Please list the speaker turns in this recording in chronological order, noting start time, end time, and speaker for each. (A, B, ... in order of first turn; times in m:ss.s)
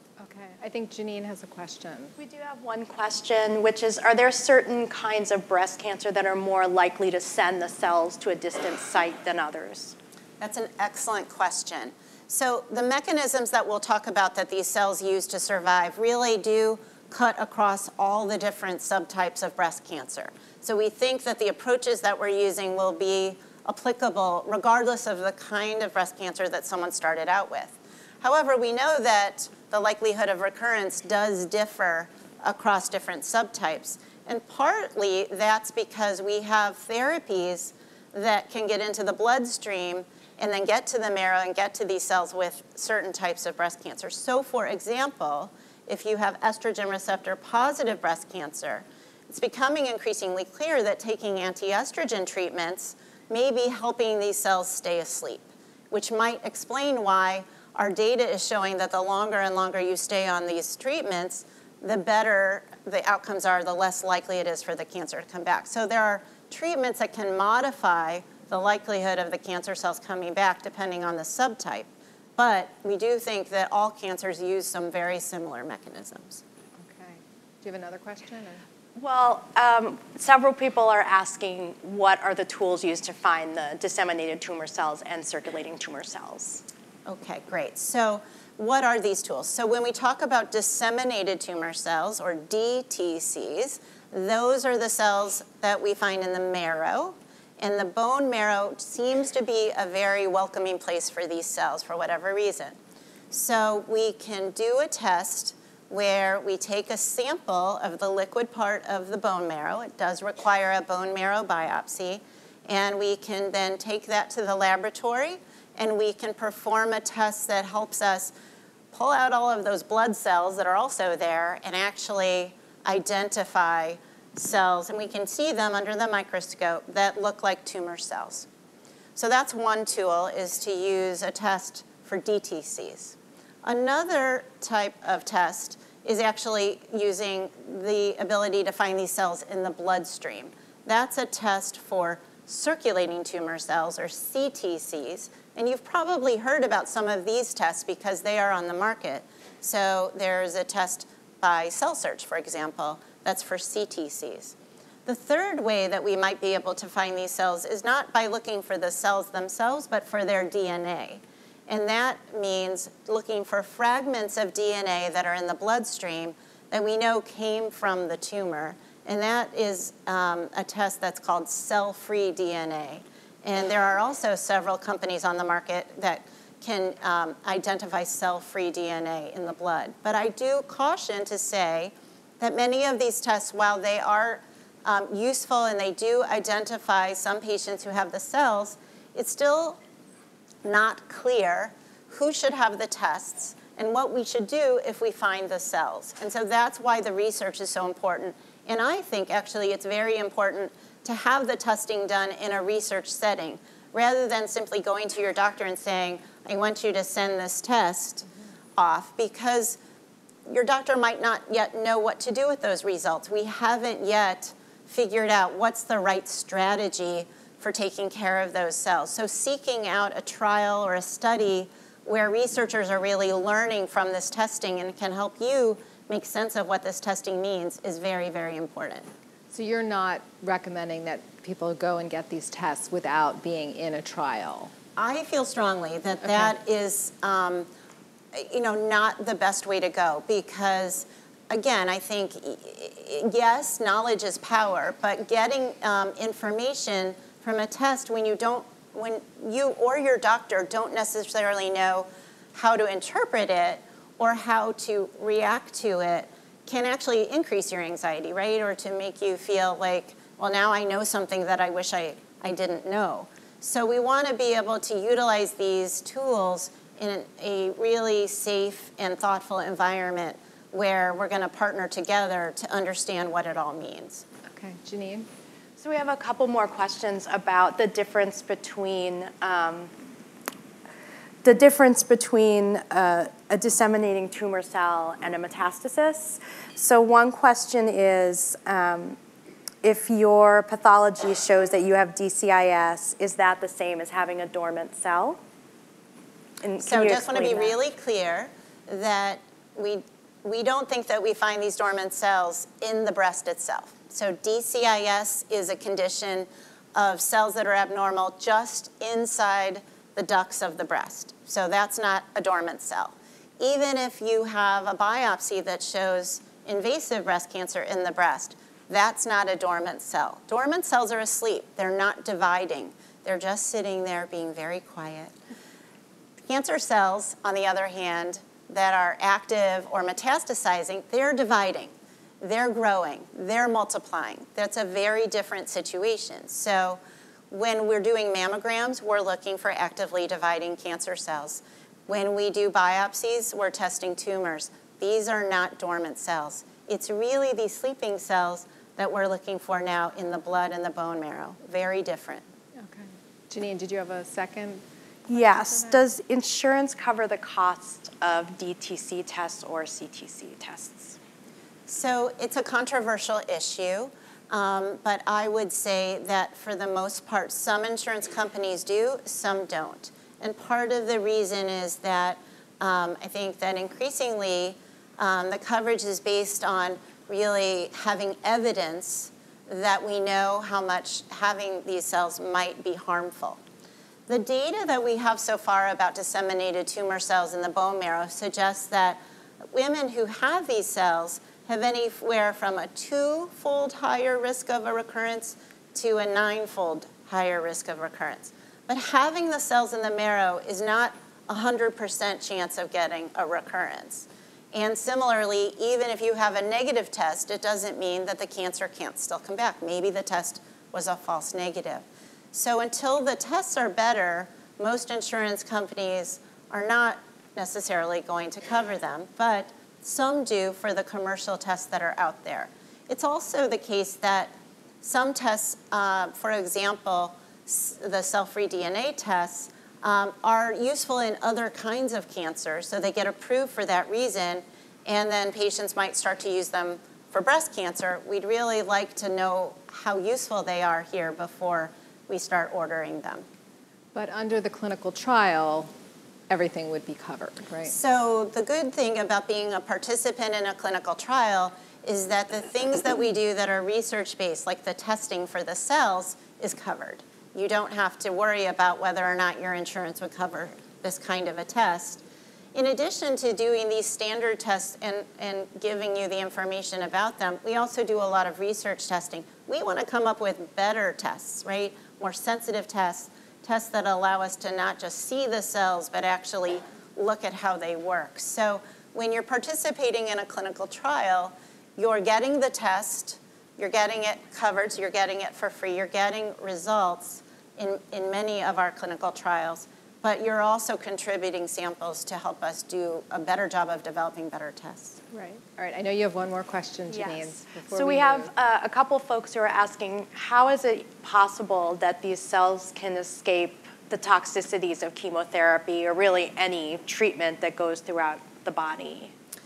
0:00.2-0:02.1 A
0:02.2-0:10.0 B
0:10.4-1:16.4 C
1:16.8-1:18.6 A
1:19.0-1:26.6 B
1:27.0-1:42.8 C
1:43.3-1:58.3 C
1:58.9-2:08.5 C
2:09.2-2:34.5 C
2:35.0-3:09.8 C
3:10.6-3:29.8 C
3:30.4-3:49.1 C
3:49.5-3:54.7 A
3:55.0-3:57.7 C
3:58.3-4:34.2 C
4:34.5-4:35.3 A
4:35.8-4:39.9 B
4:41.4-4:49.2 B
4:49.8-4:55.4 B
4:56.6-4:57.8 B
4:56.8-5:25.3 C
5:26.5-5:37.0 C
5:37.5-5:52.4 C
5:52.8-5:56.0 A
5:55.3-6:01.2 B
6:01.9-6:23.6 C
6:24.3-6:29.2 C
6:29.7-7:23.4 C
7:24.1-7:25.9 A
7:26.5-7:27.9 A
7:27.8-7:42.2 C
7:42.7-8:15.2 C
8:15.3-8:18.5 A
8:17.1-8:29.3 B